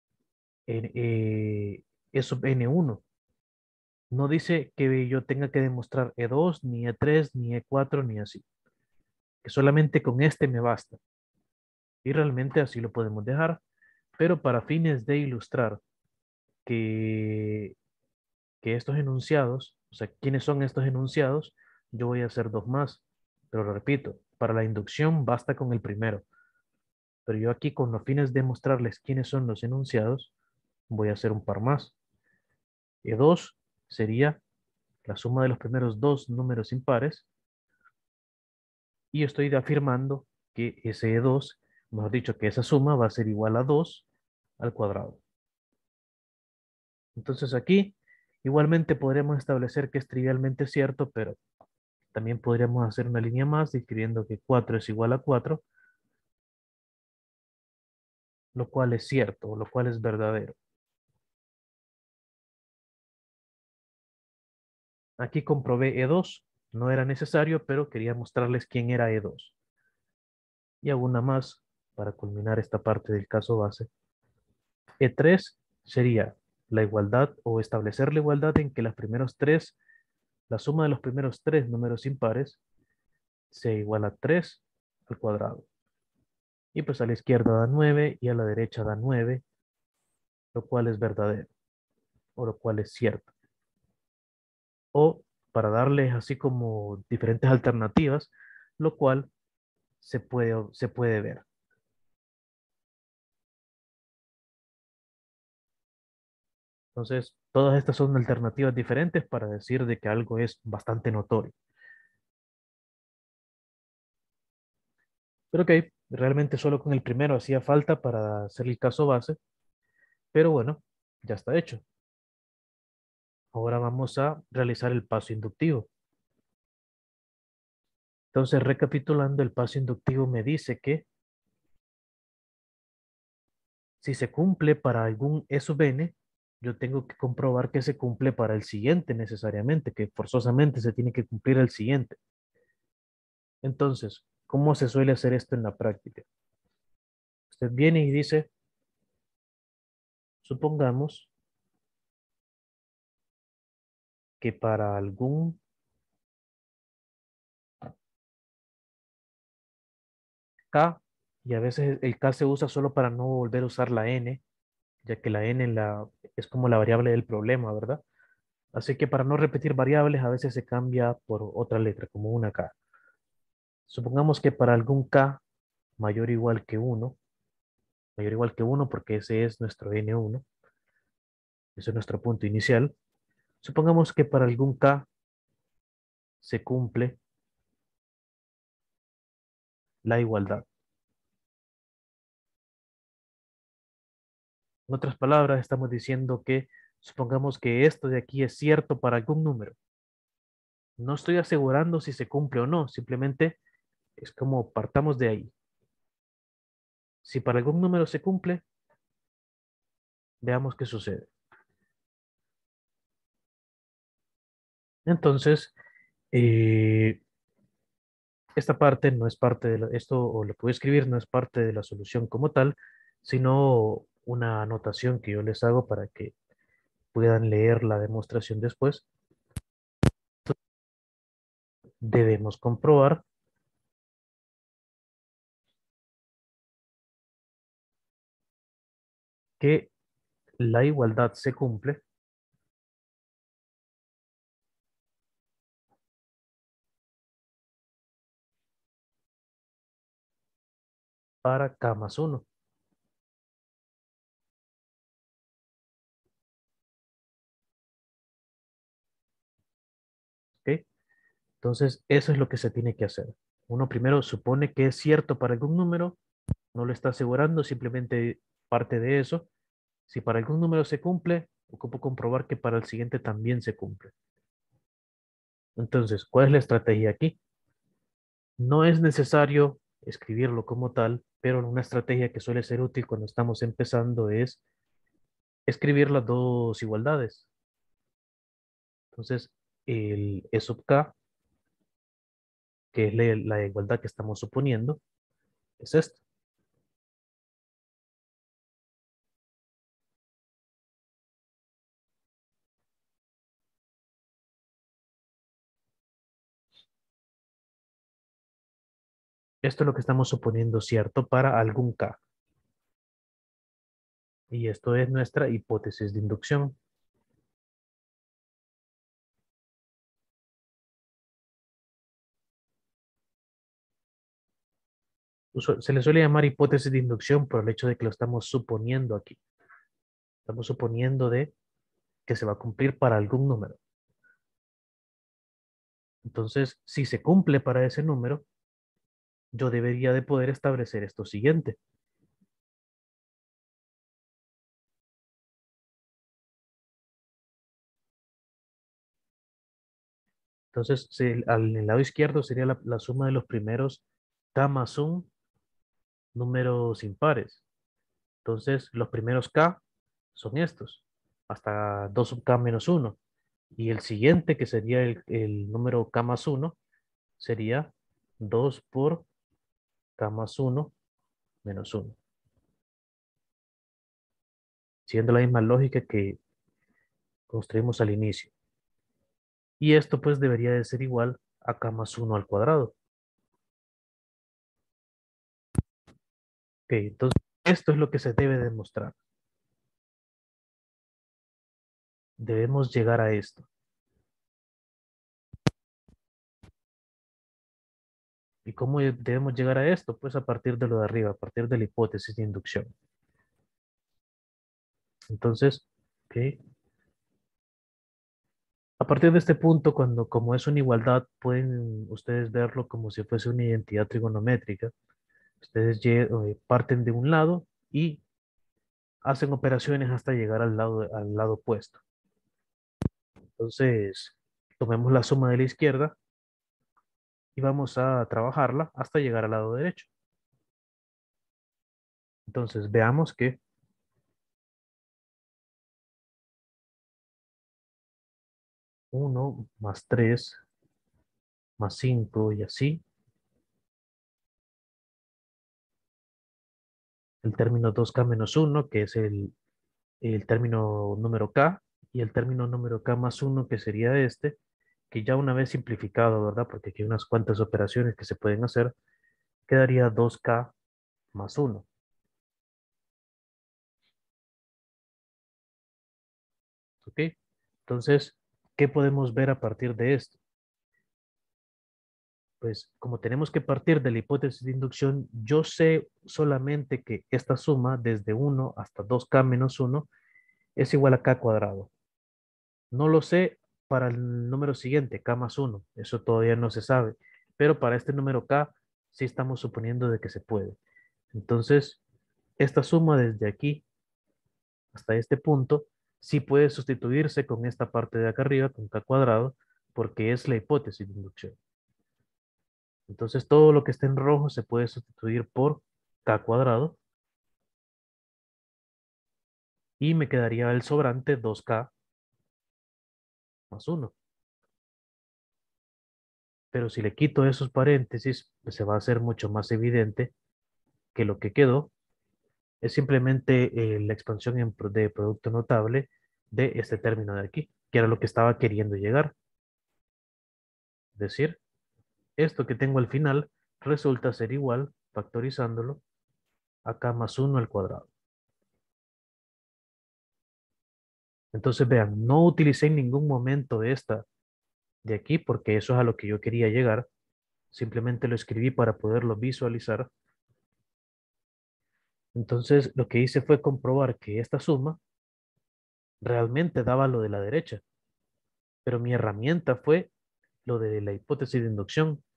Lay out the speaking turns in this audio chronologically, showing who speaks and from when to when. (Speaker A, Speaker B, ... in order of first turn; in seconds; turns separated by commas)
Speaker A: 0.7-3.0, Speaker A: 4.1-8.4, Speaker A: 9.4-11.0, Speaker A: 12.0-13.6, Speaker A: 14.2-15.8, Speaker A: 16.6-17.7, Speaker A: 18.6-26.2, Speaker A: 27.3-30.3, Speaker A: 30.9-31.9, Speaker A: 33.0-34.4, Speaker A: 35.0-37.3, Speaker A: 39.1-44.1, Speaker A: 44.6-45.2, Speaker A: 47.2-51.4, Speaker A: 52.1-55.6, Speaker A: 58.5-60.6, Speaker A: 65.2-69.5, Speaker A: 70.8-73.9, Speaker A: 75.0-79.8, Speaker A: 80.5-82.6, Speaker A: 83.5-85.7, Speaker A: 86.8-89.4, Speaker A: 90.5-91.5, Speaker A: 92.4-93.3, Speaker A: 95.0-99.3, Speaker A: 100.0-101.4, Speaker A: 107.0-111.5, Speaker A: 115.5-119.4, Speaker A: 120.3-121.8, Speaker A: 123.5-125.9, Speaker A: 128.3-131.1, Speaker A: 134.0-142.2, Speaker A: 143.6-146.3, Speaker A: 147.5-148.5, Speaker A: 150.4-151.3, Speaker A: 154.4-155.6, Speaker A: 160.7-164.4, Speaker A: 165.1-168.0, Speaker A: 168.7-172.7, Speaker A: 173.9-175.4, Speaker A: 176.0-177.2, Speaker A: 178.2-180.4, Speaker A: 181.8-182.9, Speaker A: 183.6-185.1, Speaker A: 186.4-187.2, Speaker A: 190.0-190.7, Speaker A: 194.9-199.8, Speaker A: 201.0-203.6, Speaker A: 204.2-205.5, Speaker A: 207.2-208.6, Speaker A: 210.4-211.3, Speaker A: 215.1-215.7, Speaker A: 216.3-217.2, Speaker A: 218.6-226.3, Speaker A: 227.1-229.1, Speaker A: 232.0-233.2, Speaker A: 239.6-239.9, Speaker A: 240.6-242.0, Speaker A: 251.4-252.5, Speaker A: 261.6-266.2, Speaker A: 266.7-269.5, Speaker A: 270.1-274.1, Speaker A: 275.8-277.4, Speaker A: 278.6-284.6, Speaker A: 285.7-287.5, Speaker A: 289.1-291.1, Speaker A: 292.9-295.0, Speaker A: 295.8-296.2, Speaker A: 309.6-312.2, Speaker A: 314.5-316.8, Speaker A: 325.5-329.4, Speaker A: 330.5-331.5, Speaker A: 332.3-333.8, Speaker A: 336.2-338.4, Speaker A: 339.5-341.8, Speaker A: 350.7-354.0, Speaker A: 354.5-355.3, Speaker A: 356.3-357.6, Speaker A: 358.4-359.8, Speaker A: 360.3-363.2, Speaker A: 363.8-366.8, Speaker A: 367.4-369.3, Speaker A: 370.2-370.9, Speaker A: 371.6-372.2, Speaker A: 375.1-376.4, Speaker A: 377.5-378.5, Speaker A: 379.8-382.9, Speaker A: 386.9-389.2, Speaker A: 392.4-393.7, Speaker A: 398.7-402.9, Speaker A: 405.3-406.6, Speaker A: 409.0-414.9, Speaker A: 415.6-418.2, Speaker A: 419.3-422.0, Speaker A: 423.6-426.1, Speaker A: 427.6-430.1, Speaker A: 432.5-433.6, Speaker A: 439.1-440.6, Speaker A: 441.8-443.0, Speaker A: 447.4-449.5, Speaker A: 450.2-454.6, Speaker A: 455.1-458.9, Speaker A: 459.7-460.7, Speaker A: 461.3-461.9, Speaker A: 467.0-467.4, Speaker A: 467.9-470.4, Speaker A: 472.6-480.1, Speaker A: 480.8-481.9, Speaker A: 482.9-490.8, Speaker A: 491.3-492.0, Speaker A: 492.6-493.9, Speaker A: 494.9-501.6, Speaker A: 503.1-507.0, Speaker A: 510.0-511.9, Speaker A: 513.7-514.1, Speaker A: 516.7-520.3, Speaker A: 521.1-521.9, Speaker A: 522.8-529.3, Speaker A: 531.1-531.6, Speaker A: 532.4-536.0, Speaker A: 536.9-538.1, Speaker A: 541.5-544.2, Speaker A: 545.0-547.1, Speaker A: 547.7-550.1, Speaker A: 552.4-555.0, Speaker A: 556.2-557.8, Speaker A: 558.9-560.1, Speaker A: 560.7-562.2